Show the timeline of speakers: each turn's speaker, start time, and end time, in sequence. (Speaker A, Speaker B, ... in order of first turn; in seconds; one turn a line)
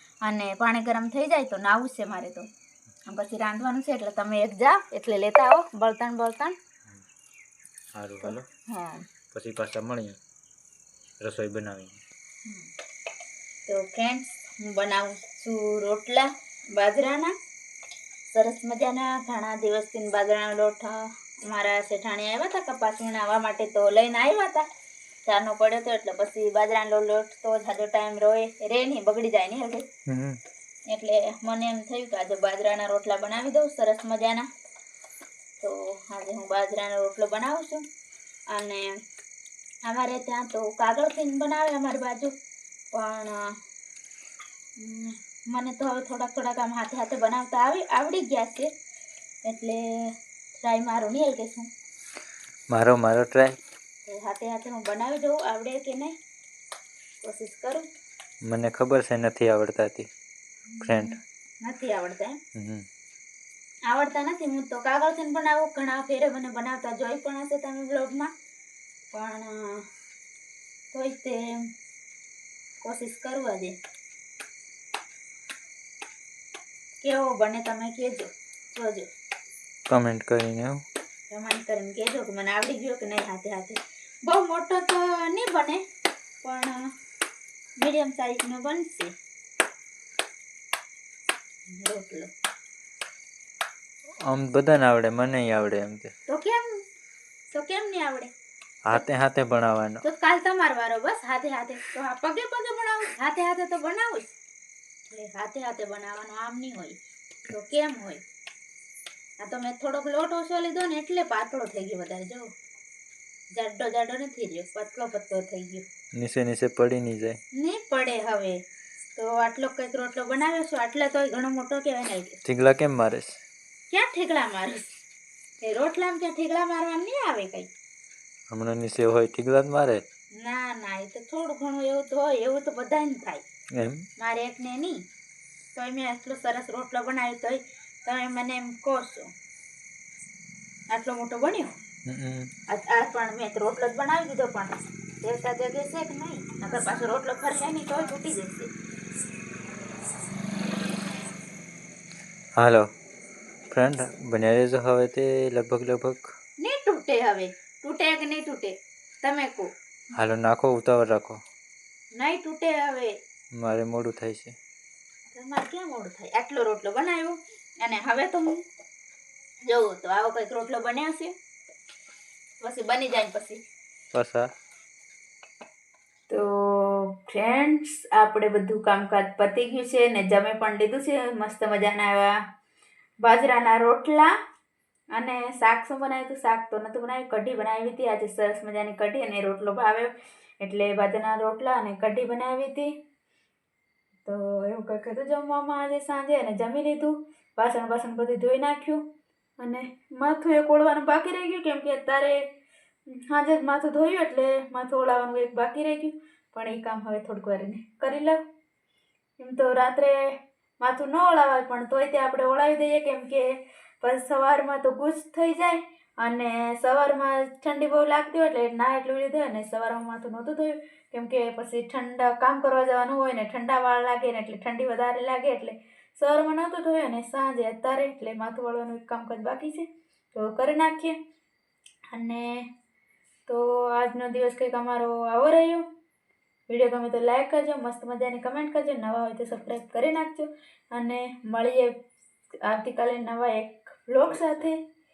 Speaker A: 0.2-2.5
Speaker A: 3.1-6.6
Speaker B: 8.0-8.5
Speaker A: 8.2-9.1
Speaker B: 9.3-10.2
Speaker B: 11.2-12.0
Speaker A: 13.7-17.4
Speaker A: 18.3-24.7
Speaker A: 25.3-29.9
Speaker B: 30.1-30.4
Speaker A: 30.9-34.5
Speaker A: 35.6-37.8
Speaker A: 38.5-39.0
Speaker A: 39.9-42.3
Speaker A: 42.9-43.5
Speaker A: 44.8-48.7
Speaker A: 49.5-51.7
Speaker B: 52.7-53.6
Speaker A: 54.1-56.2
Speaker A: 57.2-57.9
Speaker B: 58.5-60.1
Speaker A: 60.7-62.4
Speaker B: 60.8-61.2
Speaker B: 62.5-62.9
Speaker A: 63.9-68.3
Speaker A: 69.1-69.8
Speaker A: 70.9-71.6
Speaker A: 72.8-73.8
Speaker A: 77.0-79.1
Speaker B: 79.9-80.8
Speaker A: 81.3-85.8
Speaker A: 86.4-86.9
Speaker A: 87.8-89.1
Speaker A: 91.7-92.3
Speaker B: 94.3-96.1
Speaker A: 96.3-96.8
Speaker A: 97.5-98.3
Speaker B: 98.9-100.0
Speaker A: 100.0-104.4
Speaker A: 105.1-107.0
Speaker A: 107.5-108.2
Speaker A: 109.4-112.5
Speaker A: 113.5-115.9
Speaker B: 116.2-117.4
Speaker A: 117.5-118.6
Speaker A: 119.2-122.4
Speaker B: 122.5-123.4
Speaker A: 123.9-125.0
Speaker A: 125.6-127.7
Speaker B: 128.5-130.0
Speaker A: 130.4-133.4
Speaker B: 133.7-134.1
Speaker A: 134.2-135.0
Speaker A: 135.8-139.3
Speaker A: 140.9-141.7
Speaker B: 142.1-142.5
Speaker A: 142.7-148.7
Speaker B: 152.6-152.9
Speaker B: 153.7-156.3
Speaker A: 156.6-159.7
Speaker B: 160.1-161.4
Speaker A: 162.2-163.2
Speaker B: 163.6-164.6
Speaker A: 165.3-168.6
Speaker A: 169.7-171.3
Speaker A: 172.6-173.6
Speaker B: 174.1-174.5
Speaker A: 176.3-182.3
Speaker A: 183.2-184.3
Speaker A: 185.1-192.9
Speaker A: 194.2-199.1
Speaker A: 199.6-202.5
Speaker A: 203.1-208.4
Speaker A: 209.4-231.2
Speaker A: 232.1-232.7
Speaker A: 233.5-235.8
Speaker A: 236.7-242.0
Speaker A: 242.6-244.8
Speaker B: 244.2-244.7